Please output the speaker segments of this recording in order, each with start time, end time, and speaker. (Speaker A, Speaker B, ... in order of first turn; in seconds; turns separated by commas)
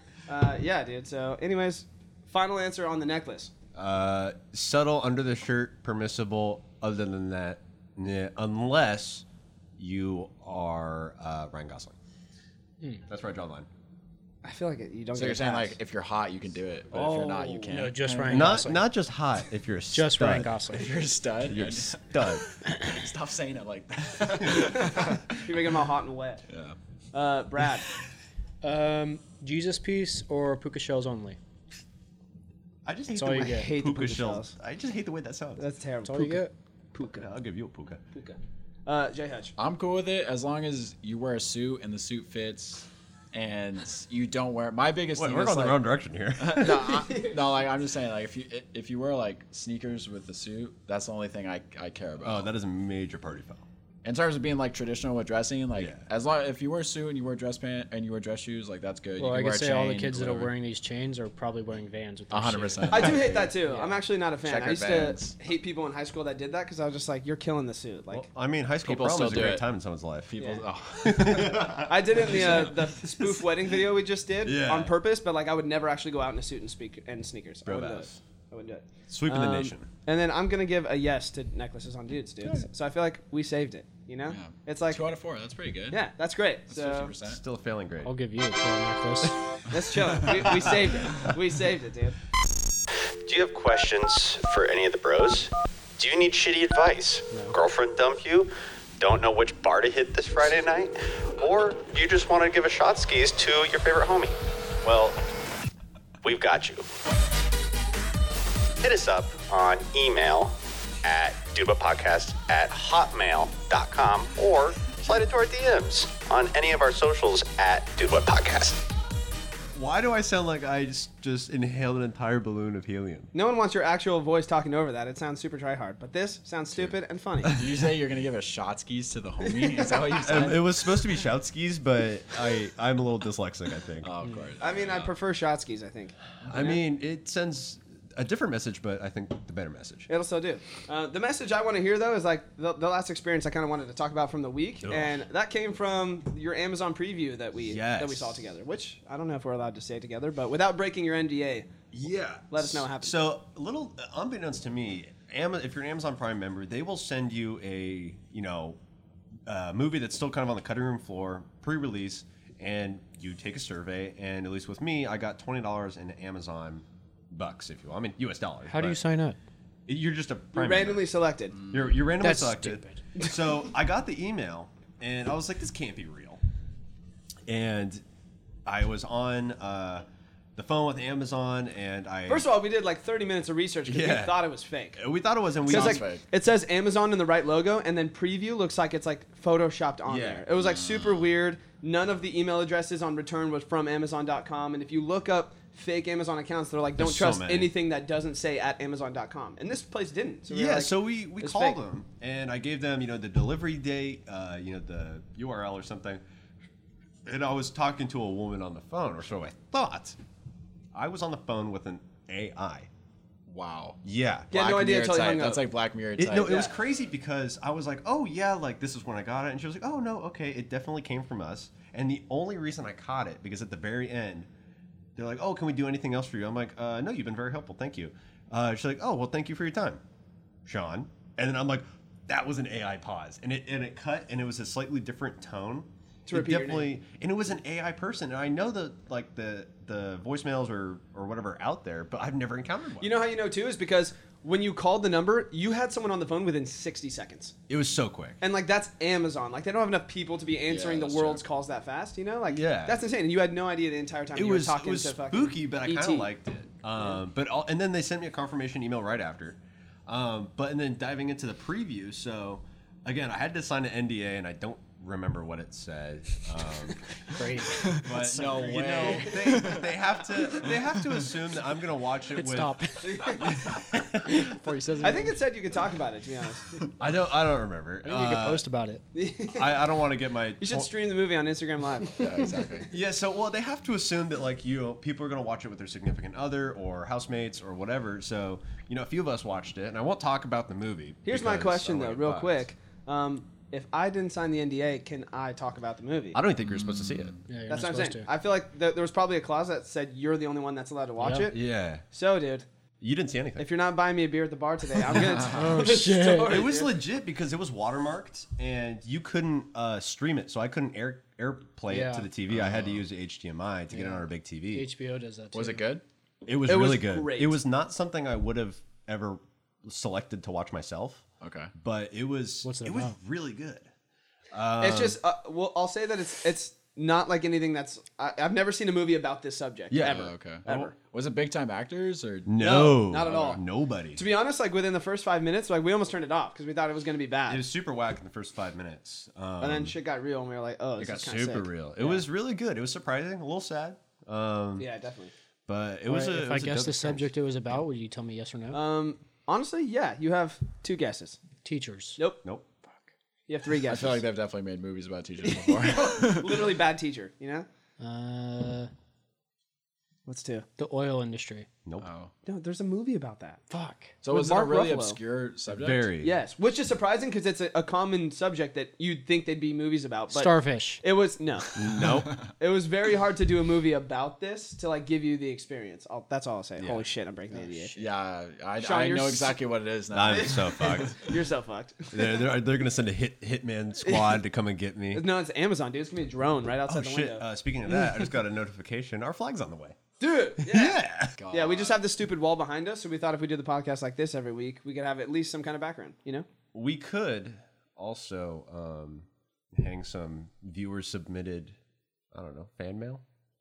Speaker A: 0.3-3.5, Speaker B: 3.8-9.2, Speaker B: 9.8-12.0, Speaker B: 13.1-13.7, Speaker A: 14.4-15.8, Speaker C: 15.1-18.6, Speaker A: 16.9-17.7, Speaker B: 16.9-17.2, Speaker D: 17.7-18.9, Speaker B: 18.3-20.5, Speaker D: 19.9-20.9, Speaker C: 20.5-25.4, Speaker B: 21.4-22.4, Speaker A: 24.8-26.4, Speaker C: 26.5-26.8, Speaker A: 27.1-27.9, Speaker D: 28.6-31.4, Speaker B: 32.9-35.6, Speaker D: 33.1-33.7, Speaker A: 33.3-34.5, Speaker A: 35.6-37.3, Speaker D: 36.0-36.5, Speaker B: 37.0-38.0, Speaker A: 38.1-39.5, Speaker C: 39.6-45.8, Speaker B: 45.1-46.9, Speaker C: 46.4-52.5, Speaker A: 46.9-47.4, Speaker B: 52.2-53.6, Speaker C: 54.0-60.5, Speaker B: 55.8-56.1, Speaker D: 59.2-64.0, Speaker C: 62.3-63.5, Speaker A: 62.9-68.3, Speaker C: 64.4-65.4, Speaker B: 68.1-70.4, Speaker C: 68.8-69.7, Speaker C: 70.3-72.8, Speaker A: 70.4-70.6, Speaker B: 71.0-72.9, Speaker A: 71.9-85.0, Speaker B: 74.4-74.9, Speaker B: 77.7-78.2, Speaker B: 79.1-79.9, Speaker C: 84.3-86.0, Speaker A: 85.9-87.1, Speaker C: 86.7-87.4, Speaker B: 87.2-88.1, Speaker D: 88.0-89.4, Speaker A: 89.7-92.2, Speaker E: 93.2-105.2, Speaker D: 97.3-97.6, Speaker E: 106.2-106.9, Speaker E: 108.8-118.8, Speaker B: 119.7-123.3, Speaker A: 123.3-127.6, Speaker C: 127.5-130.7, Speaker A: 129.4-130.2, Speaker B: 130.2-134.1, Speaker C: 134.0-135.1, Speaker A: 134.6-136.8, Speaker B: 136.4-140.1, Speaker A: 140.1-151.7, Speaker B: 144.8-145.2, Speaker B: 147.7-148.4, Speaker B: 151.9-158.8, Speaker A: 152.5-153.2, Speaker B: 159.5-169.0, Speaker D: 168.7-169.4, Speaker B: 169.9-171.1, Speaker A: 170.5-171.6, Speaker B: 171.7-176.4, Speaker D: 172.2-173.0, Speaker B: 177.5-178.0, Speaker B: 178.7-182.5, Speaker A: 182.3-185.0, Speaker B: 183.9-184.4, Speaker B: 184.9-186.1, Speaker C: 185.7-186.2, Speaker A: 185.7-201.8, Speaker B: 190.1-190.4, Speaker C: 190.6-191.2, Speaker B: 197.0-197.7, Speaker B: 200.5-206.2, Speaker B: 207.3-210.2, Speaker B: 210.9-212.9, Speaker C: 213.5-214.0, Speaker B: 214.0-214.5, Speaker A: 214.5-215.7, Speaker C: 214.5-216.6, Speaker B: 216.2-224.5, Speaker A: 216.4-216.8, Speaker B: 225.2-230.0, Speaker B: 230.7-243.2, Speaker A: 236.3-236.9, Speaker A: 243.0-247.6, Speaker B: 247.7-248.4, Speaker A: 248.4-256.3, Speaker C: 250.7-251.4, Speaker B: 252.5-253.0, Speaker B: 254.3-267.0, Speaker D: 267.3-269.4, Speaker C: 267.8-269.9, Speaker B: 267.9-274.4, Speaker D: 272.4-273.3, Speaker A: 273.0-273.5, Speaker D: 274.2-275.4, Speaker A: 275.0-276.8, Speaker B: 277.0-278.6, Speaker D: 278.0-279.0, Speaker A: 279.1-279.9, Speaker B: 279.5-280.9, Speaker A: 280.6-282.6, Speaker C: 282.2-282.9, Speaker B: 282.9-292.7, Speaker A: 291.2-296.4, Speaker B: 296.3-297.4, Speaker C: 296.6-297.4, Speaker D: 297.5-298.3, Speaker A: 297.7-301.6, Speaker D: 301.2-301.5, Speaker B: 301.5-302.1, Speaker A: 302.1-302.7, Speaker B: 303.0-303.7, Speaker A: 303.6-307.0, Speaker D: 305.4-306.6, Speaker B: 306.4-314.9, Speaker D: 311.9-312.3, Speaker C: 312.5-313.0, Speaker D: 313.9-315.8, Speaker C: 315.5-316.0, Speaker B: 316.4-323.9, Speaker A: 316.7-317.6, Speaker C: 321.4-321.7, Speaker D: 322.6-323.2, Speaker B: 324.5-325.2, Speaker A: 324.8-330.9, Speaker B: 329.9-330.9, Speaker C: 330.1-332.6, Speaker B: 332.5-334.2, Speaker A: 332.6-333.6, Speaker C: 333.3-333.6, Speaker A: 334.1-337.7, Speaker B: 337.5-339.9, Speaker A: 339.6-342.2, Speaker B: 341.0-344.9, Speaker A: 344.8-345.3, Speaker B: 345.7-347.3, Speaker D: 346.1-348.8, Speaker A: 348.7-351.4, Speaker D: 351.6-352.2, Speaker A: 353.5-354.2, Speaker C: 353.9-356.7, Speaker A: 355.4-357.7, Speaker D: 358.0-358.9, Speaker A: 360.3-360.7, Speaker D: 360.8-361.7, Speaker C: 362.0-362.3, Speaker A: 362.5-363.6, Speaker D: 363.7-364.1, Speaker C: 364.2-366.1, Speaker A: 364.3-365.2, Speaker B: 365.7-366.3, Speaker A: 366.2-371.8, Speaker D: 370.3-371.0, Speaker B: 371.8-372.3, Speaker A: 372.6-377.9, Speaker D: 377.5-378.0, Speaker C: 378.0-380.9, Speaker A: 378.8-379.6, Speaker B: 380.1-381.2, Speaker A: 380.2-382.4, Speaker B: 382.1-385.2, Speaker A: 384.0-384.4, Speaker A: 385.1-387.4, Speaker B: 386.9-390.0, Speaker A: 390.2-396.5, Speaker B: 390.6-391.4, Speaker C: 391.4-392.0, Speaker B: 396.7-401.8, Speaker B: 402.3-403.2